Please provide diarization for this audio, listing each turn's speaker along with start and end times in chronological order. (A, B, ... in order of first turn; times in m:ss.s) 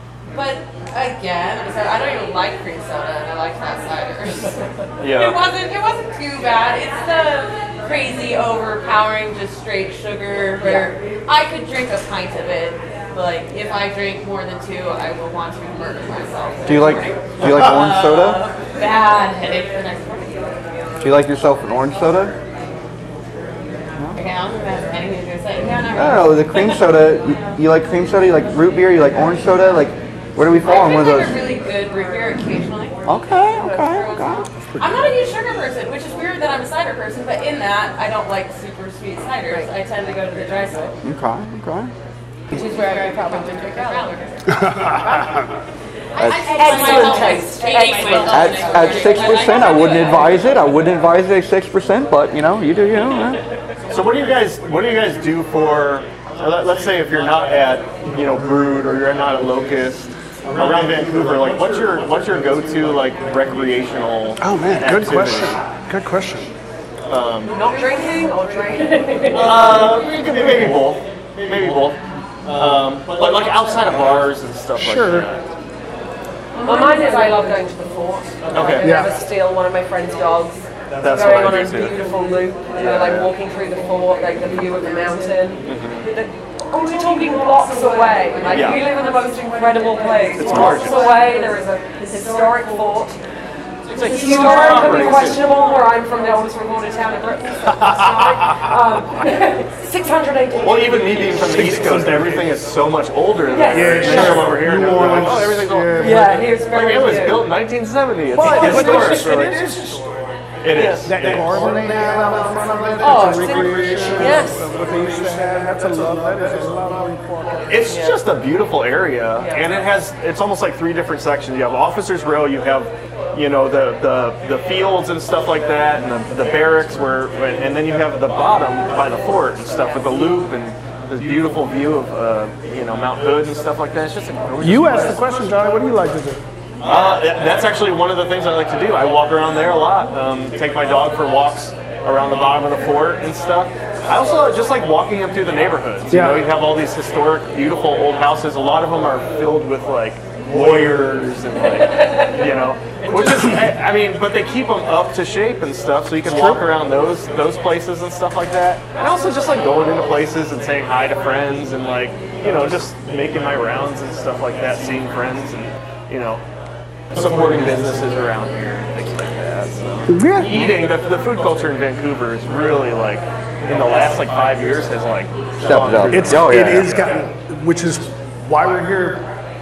0:00.3-0:20.5 A
0:05.0-0:05.4 B
0:10.6-0:10.9 C
0:16.6-0:18.4 D
0:21.0-0:22.3 D
0:24.1-0:27.2 A
0:25.9-0:31.4 D
0:30.6-0:33.0 A
0:33.0-0:34.5 D
0:33.7-0:40.9 A
0:41.0-0:41.9 D
0:42.5-0:44.7 A
0:44.5-0:45.6 E
0:46.1-0:50.8 A
0:46.2-0:47.2 D
0:46.5-0:49.3 C
0:48.2-0:53.4 D
0:53.9-1:05.6 B
1:00.5-1:01.5 E
1:04.4-1:06.5 E
1:07.1-1:07.6 B
1:07.4-1:10.0 C
1:09.3-1:15.5 B
1:14.8-1:15.3 E
1:16.6-1:17.4 A
1:16.6-1:33.2 C
1:18.5-1:19.0 B
1:18.8-1:19.1 E
1:20.9-1:22.0 B
1:22.7-1:23.3 B
1:25.6-1:26.1 B
1:28.5-1:28.8 B
1:30.4-1:31.1 B
1:33.9-1:35.4 B
1:33.9-1:41.2 C
1:40.6-1:49.7 B
1:41.5-1:42.5 E
1:43.5-1:44.5 C
1:43.7-1:46.5 E
1:46.0-1:47.5 C
1:48.3-1:57.8 E
1:50.6-1:51.9 B
1:53.0-1:54.7 C
1:57.7-2:15.4 B
1:57.9-1:58.2 C
1:59.4-1:59.6 C
2:14.6-2:16.4 E
2:16.8-2:46.4 B
2:26.1-2:26.5 E
2:47.1-2:57.2 B
2:50.1-2:50.6 E
2:55.6-2:57.0 D
2:56.1-2:59.2 E